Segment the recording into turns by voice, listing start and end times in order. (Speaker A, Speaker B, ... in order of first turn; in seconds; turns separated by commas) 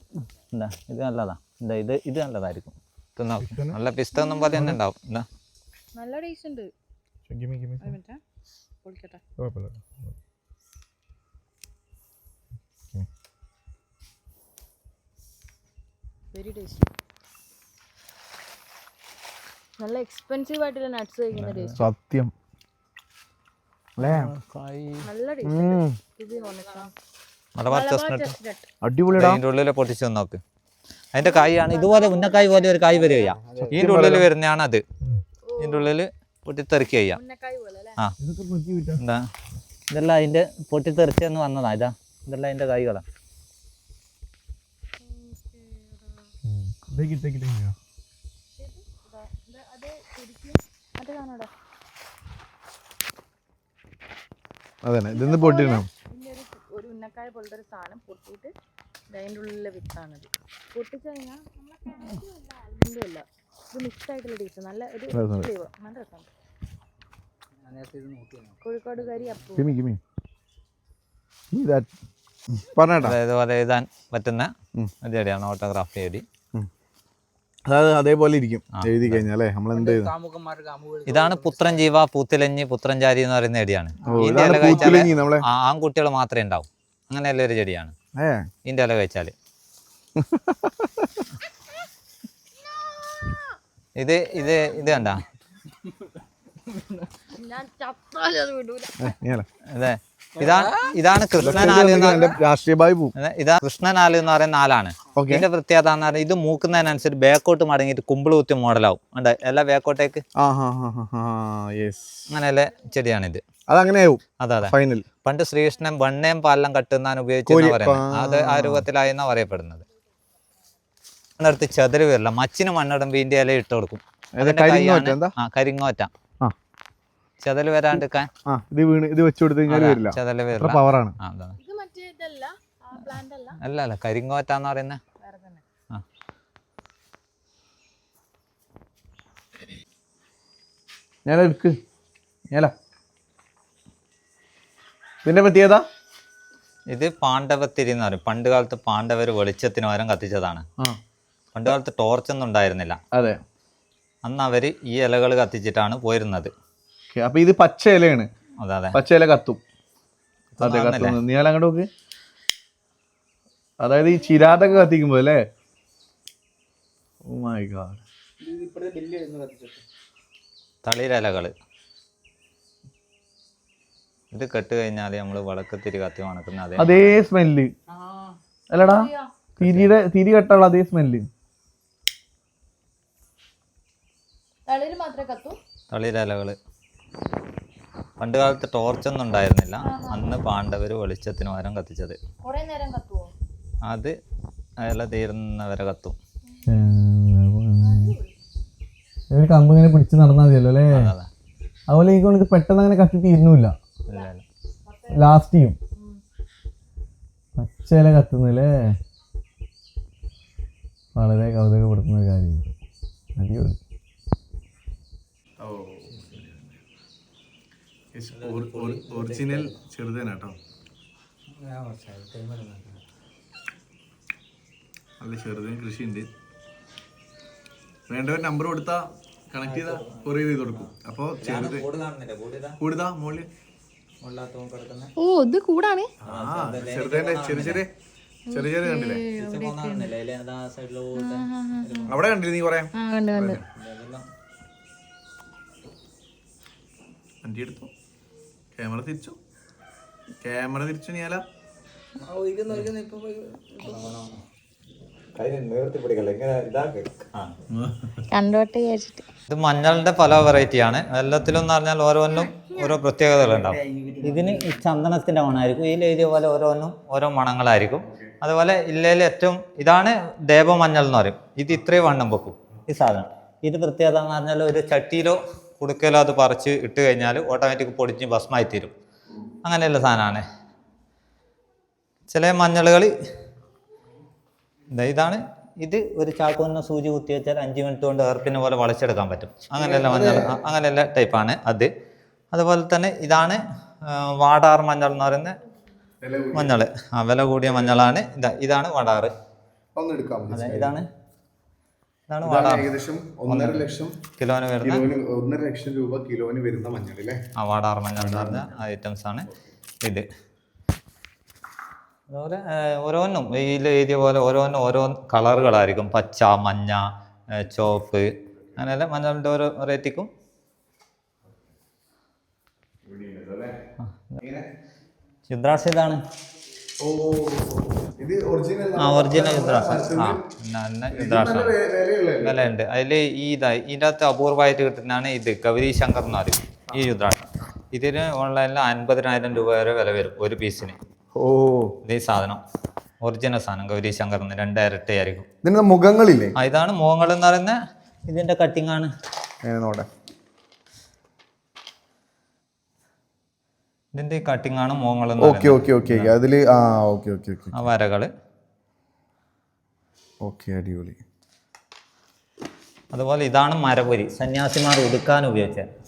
Speaker A: 0.5-5.3, Speaker B: 3.4-3.8, Speaker C: 4.1-4.6, Speaker B: 4.5-4.8, Speaker C: 5.9-6.7, Speaker B: 7.3-8.0, Speaker C: 7.8-8.2, Speaker C: 8.8-9.2, Speaker B: 9.4-10.1, Speaker C: 16.3-16.9, Speaker C: 19.8-21.8, Speaker A: 21.3-21.8, Speaker B: 21.8-22.3, Speaker B: 24.0-24.3, Speaker A: 24.0-25.1, Speaker C: 25.0-26.9, Speaker B: 25.4-26.0, Speaker A: 27.6-28.3, Speaker C: 27.7-28.7, Speaker B: 28.8-29.4, Speaker A: 29.1-30.4, Speaker A: 31.1-34.8, Speaker C: 31.2-33.4, Speaker D: 33.5-33.8, Speaker B: 33.6-34.2, Speaker C: 35.4-35.9, Speaker A: 35.6-37.2, Speaker C: 37.0-38.0, Speaker B: 38.2-39.0, Speaker A: 39.0-39.3, Speaker A: 39.9-43.0, Speaker C: 45.0-46.3, Speaker B: 46.4-47.8, Speaker C: 48.5-51.5, Speaker B: 54.8-55.9, Speaker C: 55.1-58.5, Speaker C: 59.1-66.3, Speaker B: 65.1-65.5, Speaker D: 67.6-69.5, Speaker C: 68.6-69.7, Speaker B: 69.5-70.0, Speaker B: 71.5-71.9, Speaker B: 72.5-73.2, Speaker A: 73.0-76.2, Speaker B: 77.7-80.1, Speaker A: 78.8-79.2, Speaker D: 79.7-81.9, Speaker A: 81.0-87.9, Speaker B: 84.0-85.4, Speaker B: 88.2-88.5, Speaker A: 88.6-89.3, Speaker B: 90.2-91.2, Speaker C: 92.8-93.4, Speaker A: 94.0-95.2, Speaker D: 96.7-97.0, Speaker C: 97.3-99.2, Speaker B: 99.0-99.5, Speaker A: 99.7-102.3, Speaker D: 100.3-101.0, Speaker B: 101.4-103.1, Speaker A: 103.2-110.2, Speaker B: 105.2-105.4, Speaker B: 110.4-112.3, Speaker A: 112.3-113.4, Speaker B: 113.7-115.0, Speaker A: 114.4-119.8, Speaker B: 117.5-118.8, Speaker A: 121.4-126.1, Speaker B: 124.3-125.3, Speaker A: 127.4-128.3, Speaker B: 128.4-131.2, Speaker A: 129.7-131.6, Speaker C: 131.6-133.6, Speaker A: 133.6-135.0, Speaker C: 135.2-135.6, Speaker B: 141.2-141.8, Speaker B: 145.2-145.8, Speaker A: 146.9-150.7, Speaker A: 151.5-153.0, Speaker B: 153.1-153.4, Speaker A: 154.2-156.5, Speaker B: 157.1-158.3, Speaker A: 158.6-159.0, Speaker B: 158.9-159.6, Speaker A: 160.5-161.2, Speaker B: 160.6-161.9, Speaker B: 163.8-165.4, Speaker C: 164.1-164.9, Speaker B: 167.2-168.0, Speaker D: 168.4-169.8, Speaker A: 170.8-171.5, Speaker A: 174.3-177.2, Speaker B: 176.8-177.7, Speaker D: 177.9-178.3, Speaker B: 178.7-179.1, Speaker C: 178.8-179.3, Speaker A: 179.6-179.9, Speaker B: 179.6-181.3, Speaker C: 184.7-185.6, Speaker A: 185.9-186.6, Speaker A: 188.2-192.2, Speaker C: 189.8-190.3, Speaker C: 192.4-193.3, Speaker A: 193.8-194.2, Speaker A: 194.8-196.2, Speaker C: 196.5-197.0, Speaker B: 196.7-198.1, Speaker C: 197.8-198.3, Speaker B: 199.3-201.1, Speaker A: 200.9-201.3, Speaker B: 201.9-203.8, Speaker A: 204.1-204.4, Speaker C: 204.8-205.4, Speaker B: 205.1-205.8, Speaker C: 205.9-206.2, Speaker B: 207.6-209.0, Speaker B: 211.1-212.8, Speaker B: 213.3-213.8, Speaker B: 215.6-216.4, Speaker A: 216.1-216.4, Speaker B: 218.1-220.6, Speaker A: 218.4-219.8, Speaker D: 221.5-223.0, Speaker B: 225.2-226.3, Speaker B: 228.1-231.8, Speaker A: 229.6-232.8, Speaker B: 232.8-233.5, Speaker A: 234.2-235.1, Speaker C: 235.2-236.1, Speaker B: 236.2-237.9, Speaker A: 236.2-237.8, Speaker B: 238.5-239.2, Speaker C: 238.5-240.1, Speaker A: 239.3-242.2, Speaker C: 241.1-242.2, Speaker B: 242.1-243.6, Speaker C: 242.9-243.6, Speaker A: 243.6-244.3, Speaker B: 247.4-247.9, Speaker B: 248.8-249.4, Speaker B: 250.4-251.4, Speaker D: 252.2-254.0, Speaker A: 253.8-254.4, Speaker A: 255.3-257.6, Speaker B: 257.7-258.2, Speaker C: 258.3-259.2, Speaker A: 259.5-278.9, Speaker C: 262.3-263.0, Speaker D: 263.4-264.8, Speaker A: 279.6-280.4, Speaker A: 282.3-283.1, Speaker A: 284.9-291.9, Speaker B: 289.8-290.6, Speaker A: 292.5-295.6, Speaker B: 296.2-296.8, Speaker A: 296.5-299.3, Speaker B: 299.9-301.0, Speaker A: 300.5-301.1, Speaker A: 302.3-302.9, Speaker B: 302.4-304.2, Speaker A: 303.5-303.8, Speaker A: 304.4-305.1, Speaker B: 304.8-307.4, Speaker A: 307.6-309.5, Speaker B: 308.2-308.7, Speaker A: 312.3-320.3, Speaker B: 323.0-323.8, Speaker A: 324.0-324.4, Speaker A: 325.5-326.2, Speaker B: 327.0-330.4, Speaker A: 329.0-331.7, Speaker B: 331.1-332.6, Speaker A: 332.4-341.0, Speaker B: 341.3-342.0, Speaker A: 342.1-342.6, Speaker A: 343.2-345.5, Speaker B: 345.6-346.6, Speaker A: 346.6-349.1, Speaker B: 349.6-350.1, Speaker A: 354.1-356.3, Speaker B: 355.4-357.9, Speaker A: 357.7-358.3, Speaker B: 360.4-361.2, Speaker A: 363.1-365.9